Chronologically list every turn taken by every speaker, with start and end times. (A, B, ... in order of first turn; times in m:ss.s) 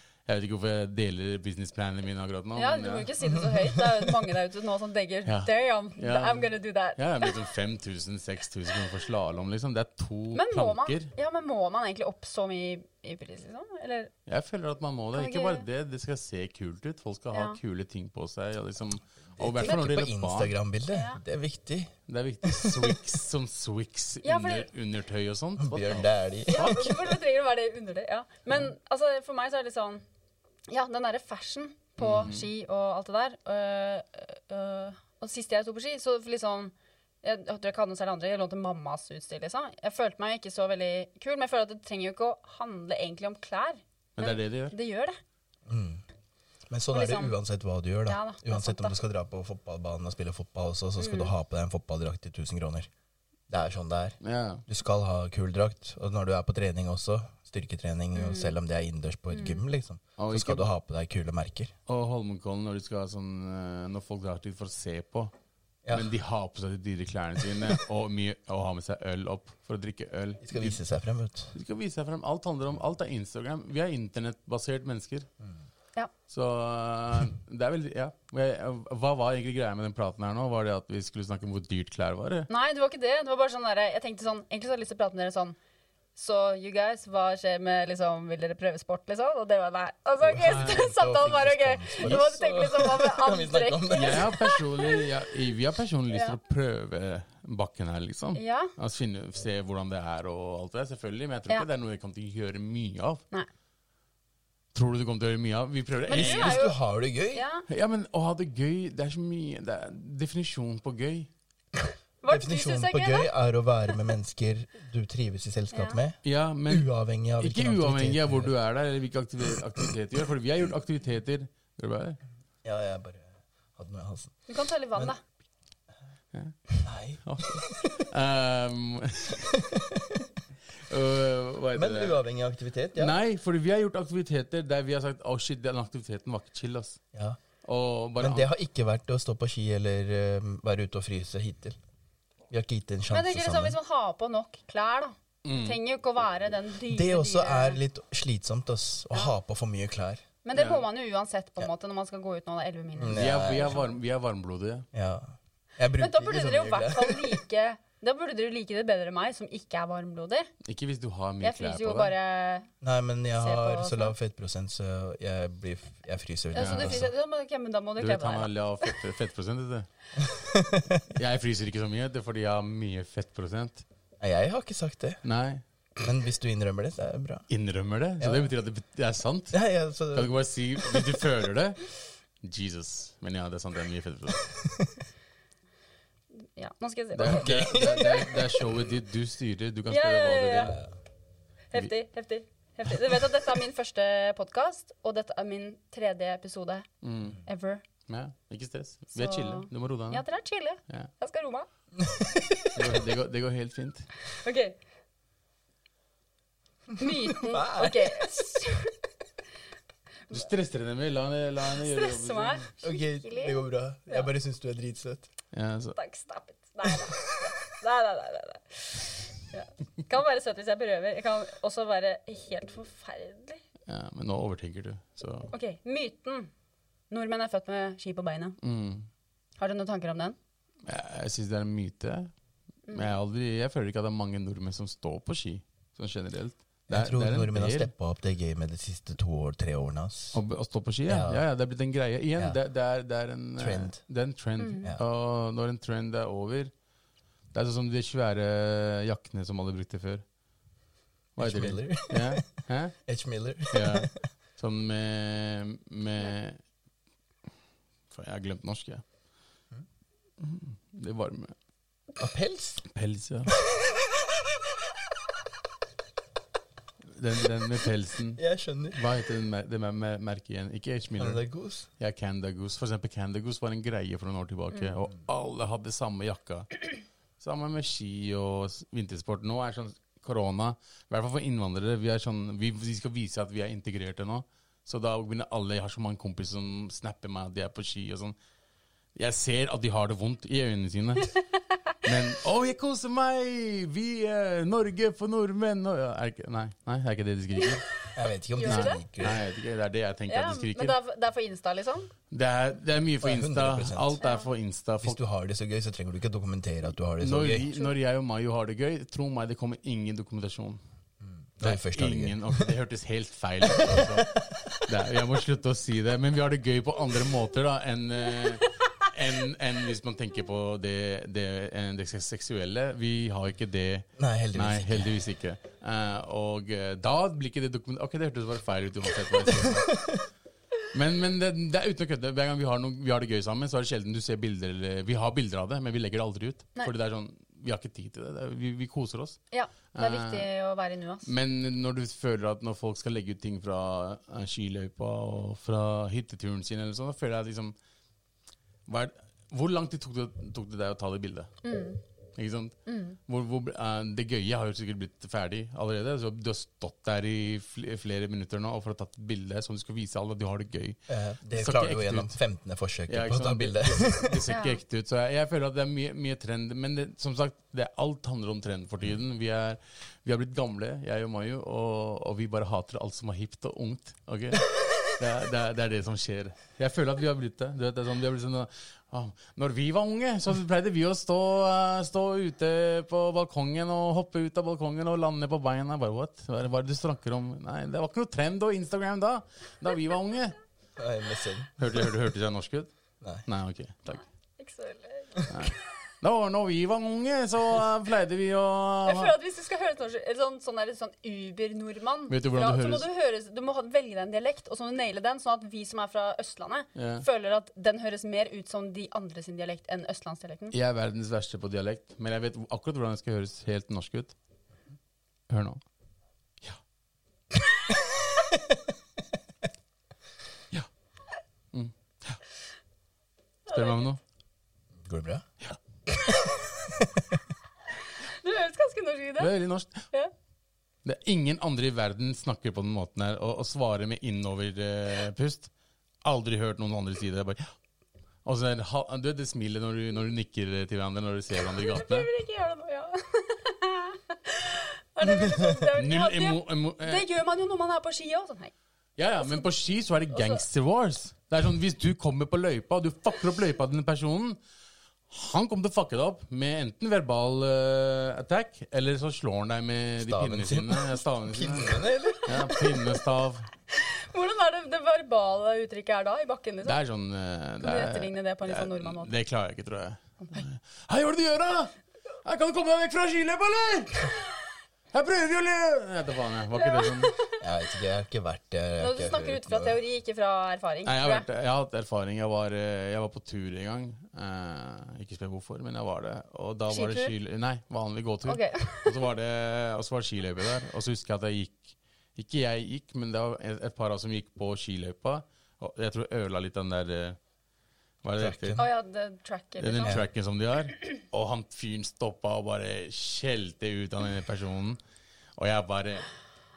0:00.2-0:03.1 A
0:02.6-0:07.4 B
0:05.2-0:11.1 A
0:10.3-0:14.1 B
0:14.2-0:20.5 A
0:15.1-0:15.6 B
0:17.3-0:17.6 B
0:19.4-0:23.0 C
0:20.9-0:21.2 B
0:22.1-0:26.1 A
0:24.2-0:24.7 B
0:25.6-0:27.1 C
0:26.5-0:30.0 B
0:30.7-0:45.2 B
0:32.0-0:32.5 A
0:44.2-0:44.7 A
0:45.7-0:46.0 C
0:46.7-0:52.9 C
0:46.9-0:47.3 B
0:48.1-0:48.9 B
0:51.0-0:51.3 B
0:53.5-1:01.7 C
0:54.2-0:54.6 A
0:58.1-0:58.5 B
0:59.3-0:59.6 B
1:00.2-1:00.6 A
1:01.9-1:05.3 A
1:05.9-1:10.8 A
1:10.4-1:11.5 C
1:11.5-1:15.3 A
1:16.3-1:22.5 A
1:22.5-1:25.6 B
1:26.2-1:35.0 B
1:30.2-1:34.4 C
1:30.4-1:30.9 A
1:33.9-1:43.2 A
1:36.1-1:36.4 B
1:38.3-1:38.7 B
1:44.7-1:46.6 A
1:46.1-1:46.8 B
1:46.1-1:47.4 C
1:47.3-1:47.6 B
1:47.7-1:51.3 A
1:52.2-1:53.3 B
1:52.3-1:58.5 C
1:55.7-1:56.0 B
1:56.2-2:02.2 A
2:02.6-2:04.4 C
2:04.5-2:05.2 B
2:06.3-2:06.6 A
2:06.8-2:08.0 C
2:07.2-2:09.4 A
2:09.3-2:10.3 C
2:10.8-2:12.2 A
2:11.7-2:13.2 C
2:13.0-2:17.0 A
2:17.1-2:17.4 C
2:17.6-2:18.5 A
2:18.2-2:21.8 C
2:22.5-2:23.8 C
2:23.1-2:27.8 B
2:25.4-2:25.8 A
2:26.9-2:30.2 C
2:30.4-2:33.8 B
2:30.5-2:30.8 A
2:33.0-2:33.8 C
2:33.1-2:34.8 A
2:34.9-2:37.4 C
2:36.0-2:40.5 B
2:40.6-2:42.1 A
2:41.4-2:42.7 B
2:42.8-2:47.1 C
2:43.4-2:44.1 B
2:46.5-2:48.9 B
2:46.6-2:47.1 A
2:48.0-2:49.9 A
2:50.2-2:51.1 C
2:51.1-2:53.8 A
2:54.2-2:55.2 C
2:55.2-2:55.6 A
2:56.0-2:57.4 C
2:57.5-2:59.6 A
2:58.2-2:58.5 C
2:59.5-3:01.2 C
3:00.1-3:01.9 A
3:02.4-3:04.5 A
3:04.5-3:04.9 C
3:06.4-3:07.8 B
3:07.2-3:10.8 A
3:07.3-3:08.6 C
3:09.9-3:10.8 B
3:11.7-3:16.9 B
3:17.0-3:17.4 A
3:17.4-3:17.8 B
3:18.1-3:20.2 A
3:19.1-3:21.7 B
3:22.0-3:23.0 C
3:22.7-3:24.1 A
3:24.4-3:24.8 B
3:27.0-3:28.9 B
3:27.3-3:28.3 C
3:30.3-3:32.7 A
3:31.8-3:34.3 B
3:32.8-3:35.3 C
3:35.5-3:36.0 A
3:35.9-3:43.6 B
3:43.9-3:45.5 A
3:45.5-3:46.5 B
3:47.1-3:48.6 B
3:48.6-3:49.1 A
3:49.6-3:50.4 B
3:50.8-3:52.3 A
3:52.9-3:57.9 A
3:56.9-4:00.4 C
4:00.3-4:06.7 A
4:01.1-4:01.4 C
4:03.6-4:04.0 C
4:04.6-4:04.9 B
4:07.5-4:10.2 A
4:11.4-4:13.0 A
4:11.4-4:12.4 C
4:13.0-4:14.1 C
4:13.7-4:16.6 A
4:18.1-4:19.0 A
4:20.4-4:21.5 A
4:22.2-4:22.8 C
4:22.9-4:23.5 A
4:23.6-4:24.2 C
4:27.1-4:28.4 A
4:28.4-4:29.0 C
4:28.9-4:31.4 A
4:31.2-4:31.9 C
4:32.0-4:48.4 A
4:49.2-4:51.4 A
4:51.9-4:57.9 A
4:58.1-4:59.4 C
4:58.6-4:59.0 B
4:58.6-5:00.9 A
5:00.3-5:02.1 B
5:02.3-5:05.2 A
5:03.2-5:04.2 C
5:04.2-5:04.5 B
5:05.0-5:07.7 C
5:07.2-5:10.8 A
5:11.2-5:12.7 C
5:11.6-5:29.9 A
5:13.7-5:14.6 C
5:24.2-5:25.1 C
5:29.5-5:30.2 C
5:30.9-5:39.4 A
5:39.5-5:41.3 B
5:39.9-5:40.5 A
5:41.2-5:47.7 A
5:48.9-5:51.5 A
5:51.6-5:52.0 B
5:52.4-6:01.0 A
5:52.9-5:53.2 B
6:01.1-6:04.4 C
6:01.5-6:02.4 A
6:03.1-6:30.6 A
6:04.5-6:04.8 B
6:31.0-6:31.7 C
6:31.8-6:32.9 A
6:33.4-6:34.2 A
6:34.6-6:35.7 B
6:35.5-6:39.4 A
6:39.0-6:50.8 B
6:42.3-6:43.1 A
6:46.9-6:47.2 A
6:50.7-6:54.3 A
6:55.5-6:55.8 A
6:58.4-6:58.8 C
7:01.7-7:02.4 A
7:03.7-7:04.1 B
7:03.7-7:04.2 A
7:05.0-7:05.4 C
7:06.3-7:07.4 C
7:08.3-7:09.5 B
7:09.4-7:10.1 A
7:11.0-7:15.7 A
7:16.2-7:17.7 A
7:18.4-7:22.3 A
7:21.8-7:28.7 B
7:25.9-7:27.2 A
7:29.2-7:34.6 A
7:30.3-7:30.6 B
7:35.3-7:43.7 A
7:40.2-7:42.7 C
7:43.9-7:47.0 B
7:46.8-7:54.4 A
7:47.8-7:49.3 B
7:55.1-7:57.4 A
7:56.9-7:57.6 B
7:57.6-8:00.0 C
7:59.0-8:01.4 B
8:01.0-8:17.4 A
8:06.9-8:07.3 B
8:08.4-8:09.1 B
8:18.2-8:18.8 A
8:18.4-8:18.8 C
8:18.8-8:20.2 B
8:19.8-8:25.0 A
8:25.6-8:26.3 A